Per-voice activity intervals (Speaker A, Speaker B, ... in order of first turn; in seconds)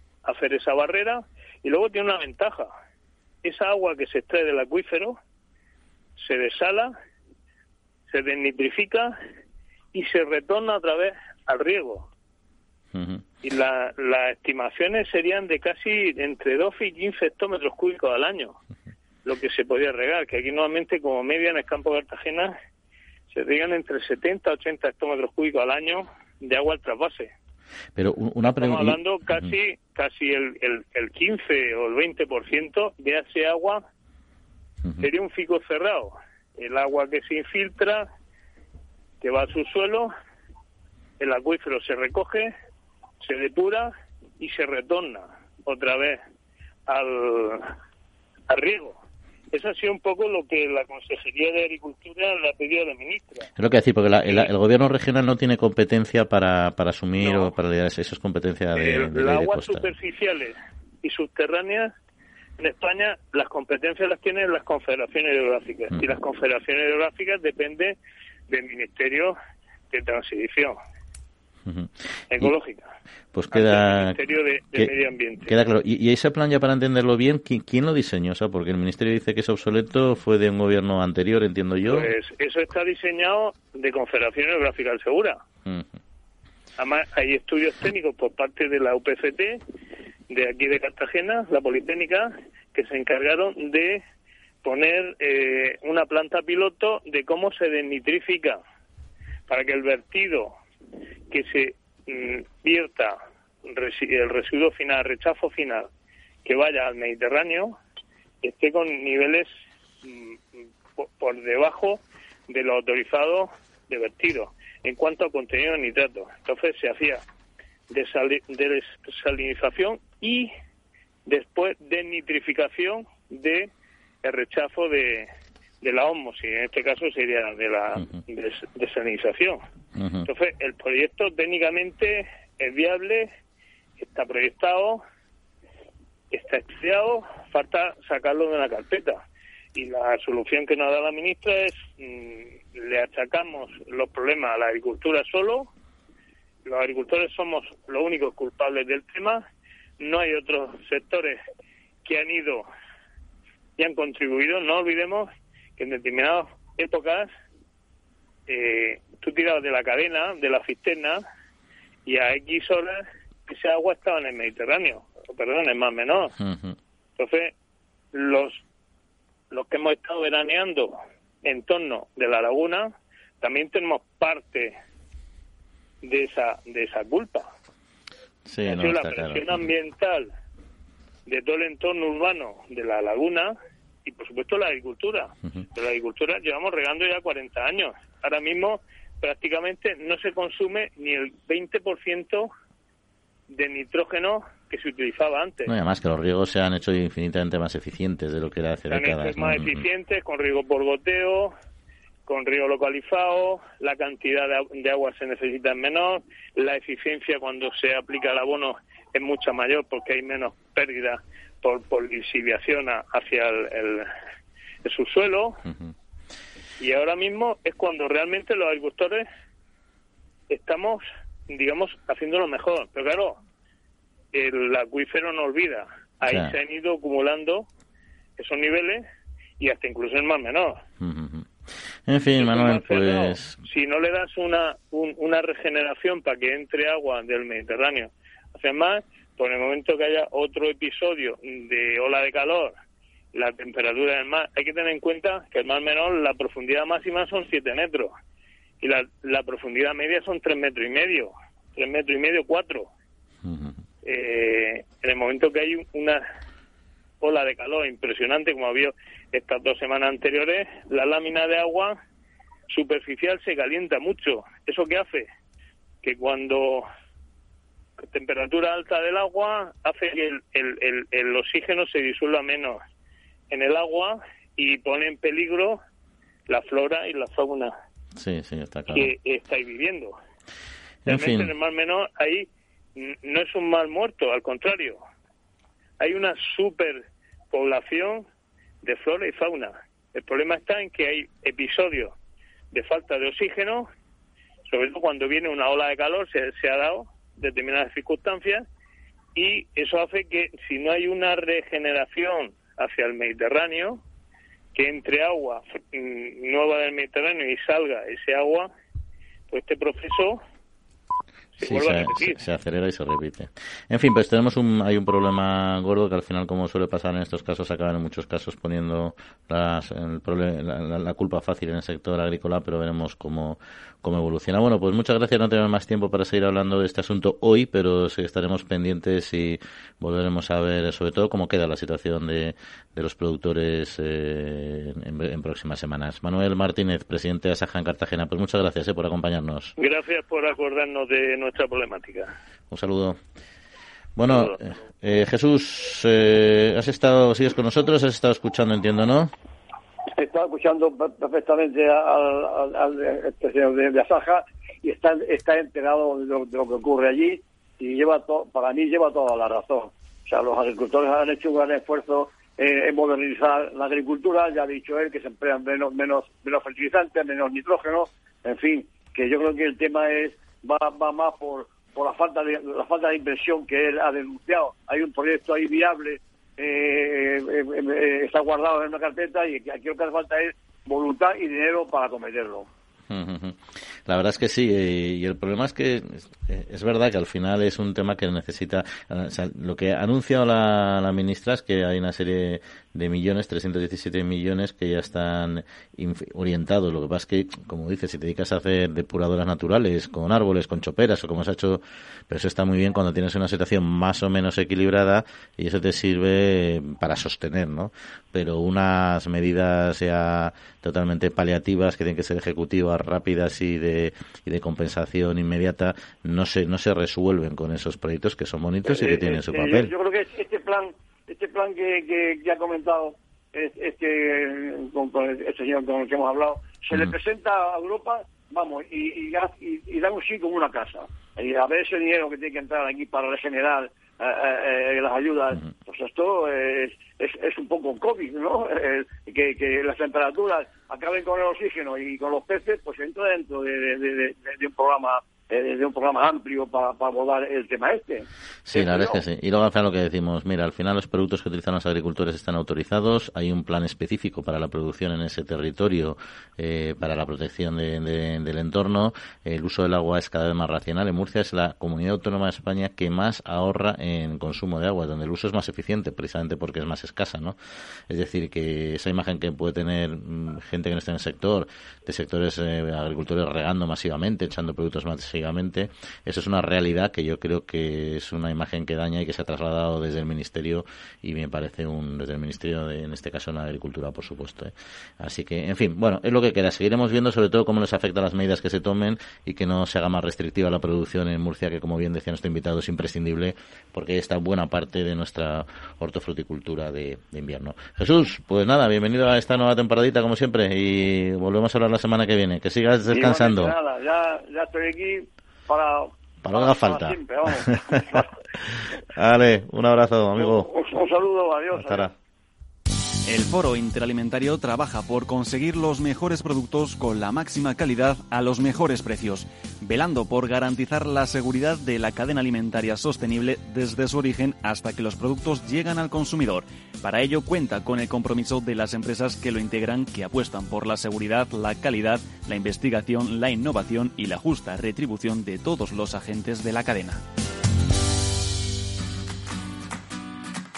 Speaker A: 0.2-2.7, 3.4-5.2, 6.2-6.9, 8.1-9.2, 9.9-12.1, 13.4-18.5, 19.2-22.5, 23.3-27.3, 28.6-33.8, 35.0-38.1, 39.2-40.1, 41.2-42.5, 43.2-46.2, 46.9-47.7, 48.5-49.0, 49.5-53.5, 57.2-57.5, 58.7-61.9, 62.6-68.0, 68.5-69.3, 69.9-70.8, 72.3-72.9, 73.5-75.5, 81.9-85.4, 86.8-89.6, 90.3-94.0, 94.6-98.6, 99.5-100.5, 101.3-105.9, 106.4-107.8, 108.4-109.5, 110.0-110.3, 111.0-117.2, 117.9-120.5, 121.2-123.7, 124.2-125.3, 125.8-129.6, 130.2-133.3, 134.0-135.0, 136.3-139.2, 139.7-145.7, 146.6-149.4, 150.0-151.4, 152.0-152.7, 153.8-157.3, 158.5-161.2, 162.1-166.3, 167.2-167.5, 168.1-168.6, 169.5-174.8, 176.0-177.5, 178.7-180.3, 181.2-192.5, 193.5-195.7, 198.9-201.5, 202.2-214.1, 214.8-215.6, 216.8-219.2, 220.5-223.4, 224.3-227.7, 228.4-229.0, 229.6-230.8, 232.4-242.7, 243.3-248.1, 248.8-252.9, 254.0-256.2, 257.2-261.9, 262.7-265.3, 266.0-266.9, 268.0-272.8, 273.5-275.8, 276.5-277.7, 278.9-280.1, 281.1-285.0, 286.0-288.2, 288.8-292.1, 292.7-293.9, 294.7-298.6, 299.3-304.0, 304.7-308.7, 309.5-310.4, 311.6-312.4, 339.8-342.3
Speaker B: 12.9-13.2, 27.9-29.5, 53.6-59.9, 71.7-72.5, 73.3-74.2, 75.4-82.1, 85.6-85.9, 129.9-130.3, 166.4-166.7, 178.4-179.4, 195.7-199.8, 226.2-226.6, 231.0-231.5, 232.1-233.6, 253.4-253.8, 278.2-279.1, 281.0-281.5, 311.6-339.7, 342.7-343.2, 344.1-349.3, 383.1-419.9, 448.6-467.6, 468.1-503.7, 506.4-508.0, 509.1-510.7, 511.7-512.1
Speaker C: 350.2-382.7, 418.9-449.2, 503.1-508.3, 510.4-512.1
Speaker D: 513.3-537.2